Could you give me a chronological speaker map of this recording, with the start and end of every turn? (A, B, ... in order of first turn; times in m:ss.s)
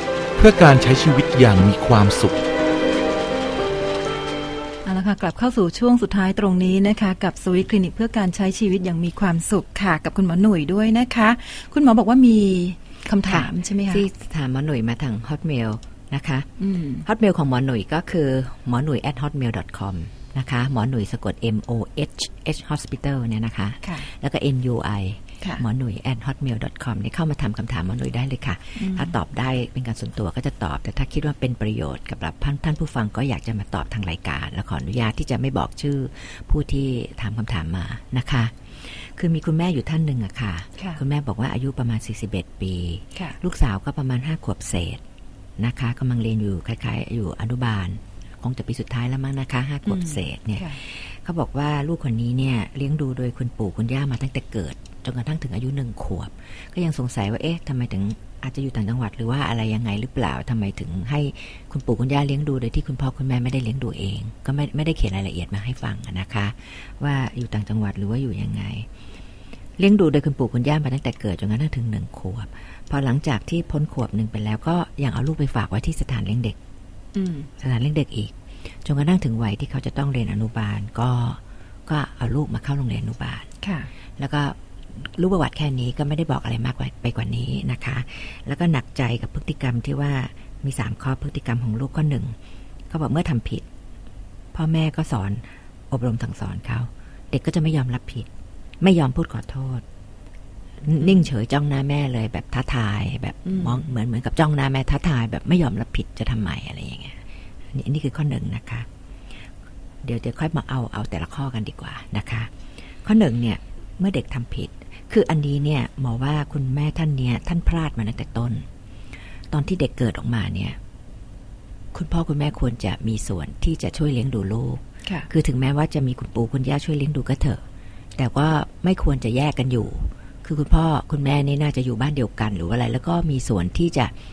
0:00.4-0:02.4 A
0:04.8-0:14.1 B
0:13.2-0:16.5 C
0:16.6-0:17.0 B
0:17.0-0:45.0 C
0:23.8-0:24.1 B
0:28.8-0:29.1 B
0:45.6-1:08.9 C
0:49.8-0:50.8 B
1:09.8-1:16.6 C
1:17.1-1:17.5 B
1:17.6-1:18.3 C
1:18.8-1:23.5 C
1:23.6-1:23.9 B
1:24.2-1:32.3 C
1:32.9-1:33.6 C
1:34.5-1:38.3 C
1:38.8-1:39.8 C
1:40.8-1:47.2 C
1:43.4-1:43.8 B
1:47.7-1:48.9 C
1:50.0-1:52.5 C
1:53.0-1:58.7 C
1:59.5-2:00.8 C
2:01.9-2:07.6 C
2:08.2-2:14.1 C